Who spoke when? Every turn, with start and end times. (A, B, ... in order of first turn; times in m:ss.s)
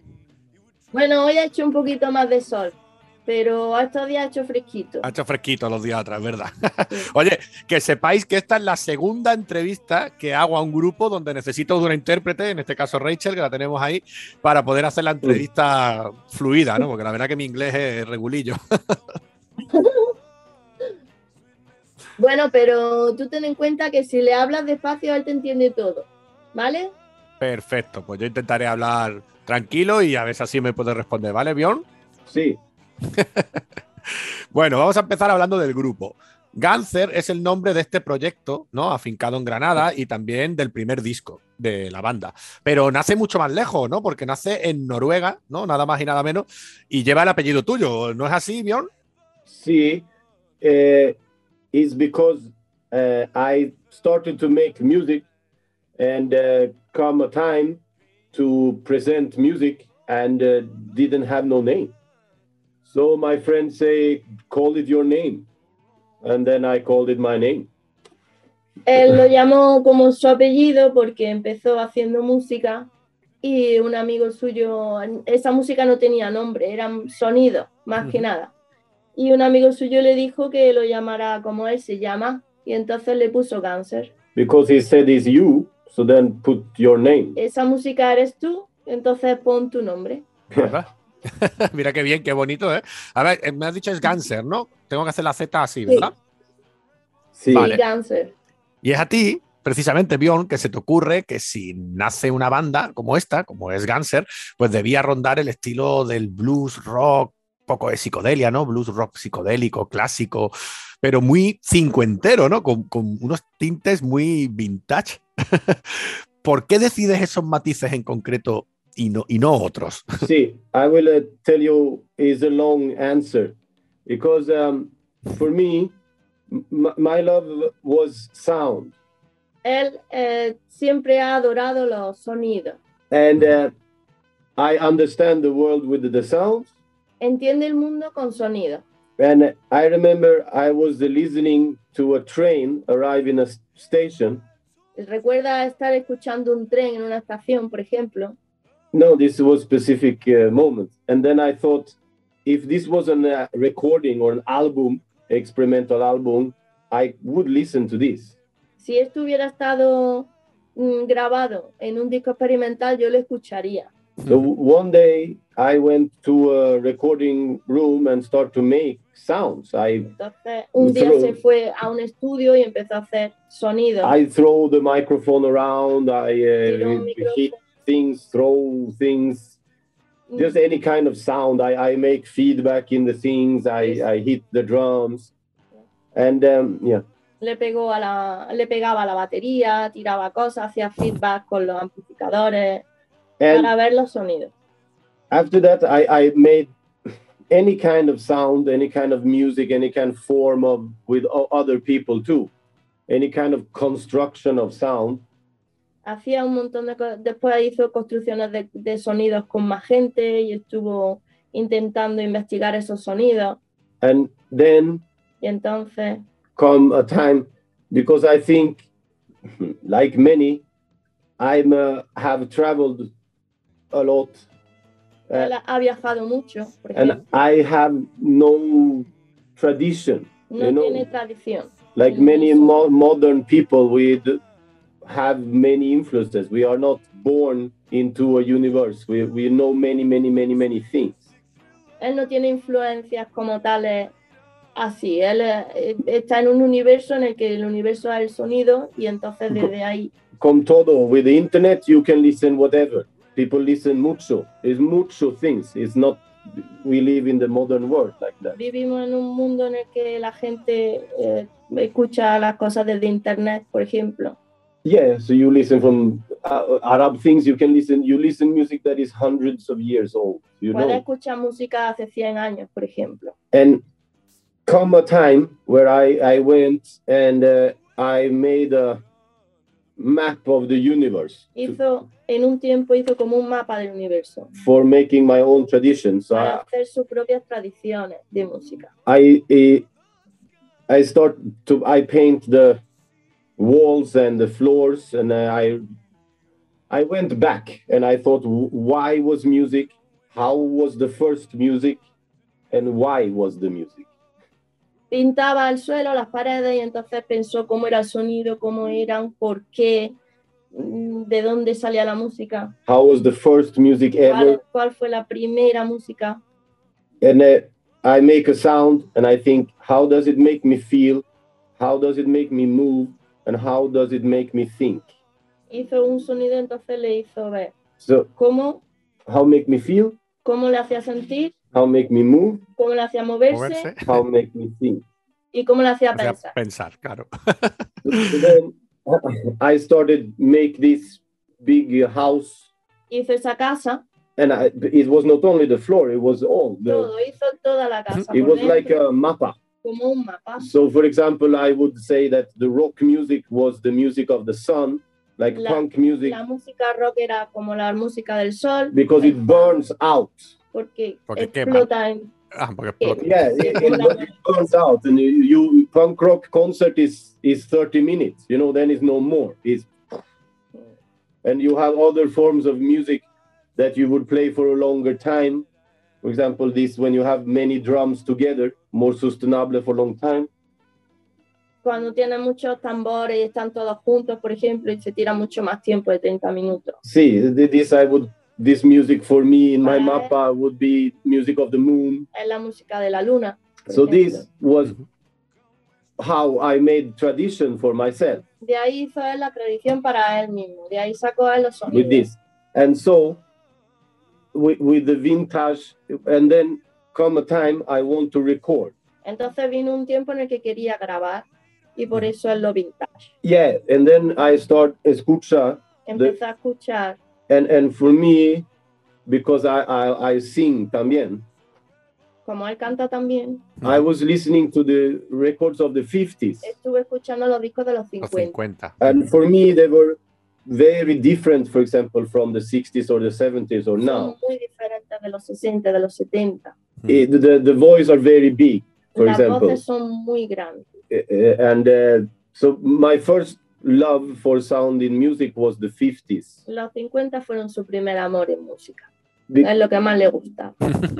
0:00.9-0:05.0 A
0:05.0-0:18.6 B
0:19.7-0:20.1 A
0:22.2-0:26.9 A
0:27.4-0:31.8 B
0:32.3-0:32.6 C
0:33.2-0:33.4 B
0:34.1-0:48.9 B
0:49.5-0:50.0 C
0:50.6-0:51.2 C
0:51.7-0:55.2 C
0:56.0-0:57.8 C
0:58.3-1:01.9 C
1:02.8-1:05.5 C
1:06.2-1:07.7 C
1:08.8-1:12.9 A
1:13.4-1:18.5 A
1:18.0-1:18.2 B
1:19.2-1:24.1 A
1:24.3-1:27.4 C
1:27.4-1:30.3 A
1:30.5-1:30.9 B
1:31.4-1:36.1 B
1:37.3-1:37.7 C
1:37.5-1:37.8 B
1:37.5-1:38.3 A
1:38.8-2:00.2 B
2:00.2-2:03.5 C
2:04.0-2:05.9 C
2:06.5-2:08.9 C
2:09.6-2:12.8 A
2:13.1-2:13.7 C
2:14.6-2:16.7 C
2:17.2-2:18.8 A
2:19.2-2:24.4 C
2:25.0-2:28.4 A
2:28.9-2:38.4 C
2:38.8-2:43.9 A
2:44.2-2:50.1 C
2:50.2-2:54.2 A
2:50.8-2:51.4 C
2:54.0-2:59.6 C
2:56.6-2:57.6 A
3:00.3-3:00.6 A
3:00.4-3:05.3 C
3:06.1-3:07.0 C
3:07.4-3:12.8 A
3:13.4-3:13.7 C
3:13.5-3:14.5 A
3:15.3-3:16.7 C
3:17.5-3:22.5 C
3:23.1-3:25.2 C
3:26.0-3:33.6 A
3:34.0-3:35.0 C
3:35.4-3:36.2 A
3:36.6-3:38.8 C
3:39.5-3:40.6 C
3:41.4-3:43.1 C
3:43.9-3:44.4 C
3:45.3-3:47.2 A
3:46.9-3:51.1 C
3:50.5-3:52.8 A
3:51.9-3:54.4 C
3:55.0-4:01.2 C
4:02.0-4:04.1 A
4:04.7-4:10.1 A
4:10.4-4:18.6 C
4:18.6-4:24.4 A
4:24.8-4:31.0 C
4:30.7-4:33.3 A
4:33.5-4:33.8 C
4:34.6-4:39.0 C
4:40.0-4:41.8 C
4:41.5-4:44.5 A
4:44.6-4:46.6 C
4:46.3-4:48.9 A
4:49.0-4:49.8 C
4:50.9-4:52.8 C
4:53.6-4:55.8 C
4:56.9-5:02.0 C
5:02.7-5:04.1 C
5:05.1-5:10.1 A
5:10.7-5:12.7 A
5:12.8-5:14.6 C
5:14.2-5:16.4 A
5:17.2-5:21.2 C
5:21.8-5:25.1 C
5:25.7-5:27.8 A
5:28.0-5:28.3 C
5:28.4-5:28.8 A
5:29.2-5:30.2 C
5:30.4-5:31.6 A
5:31.7-5:32.6 C
5:32.7-5:33.9 A
5:33.5-5:34.2 B
5:34.0-5:35.0 C
5:35.5-5:36.5 A
5:36.1-5:38.4 B
5:38.0-5:42.7 C
5:43.1-5:44.0 A
5:44.4-5:47.1 C
5:46.8-5:49.0 A
5:48.3-5:49.6 C
5:49.8-5:50.7 A
5:50.6-5:56.4 C
5:55.5-5:59.4 A
5:58.9-6:00.5 C
6:00.7-6:02.3 A
6:01.3-6:01.9 B
6:02.5-6:03.8 B
6:03.0-6:04.4 A
6:03.2-6:10.2 C
6:11.4-6:13.2 C
6:13.8-6:15.6 C
6:16.2-6:20.5 C
6:21.8-6:27.0 A
6:27.0-6:32.2 C
6:29.8-6:30.3 A
6:32.3-6:34.4 A
6:33.9-6:35.0 C
6:36.2-6:38.4 C
6:38.6-6:42.3 A
6:41.9-6:43.4 C
6:44.5-6:48.9 C
6:49.2-6:53.3 A
6:53.4-6:56.4 C
6:56.0-6:57.2 A
6:57.5-6:58.6 C
6:59.2-7:01.4 C
7:02.4-7:03.7 A
7:03.8-7:06.7 C
7:06.6-7:08.6 A
7:08.2-7:09.0 B
7:09.0-7:14.3 C
7:14.0-7:16.7 A
7:17.1-7:19.8 C
7:19.1-7:20.8 A
7:21.1-7:26.6 C
7:26.7-7:29.1 A
7:29.6-7:30.8 A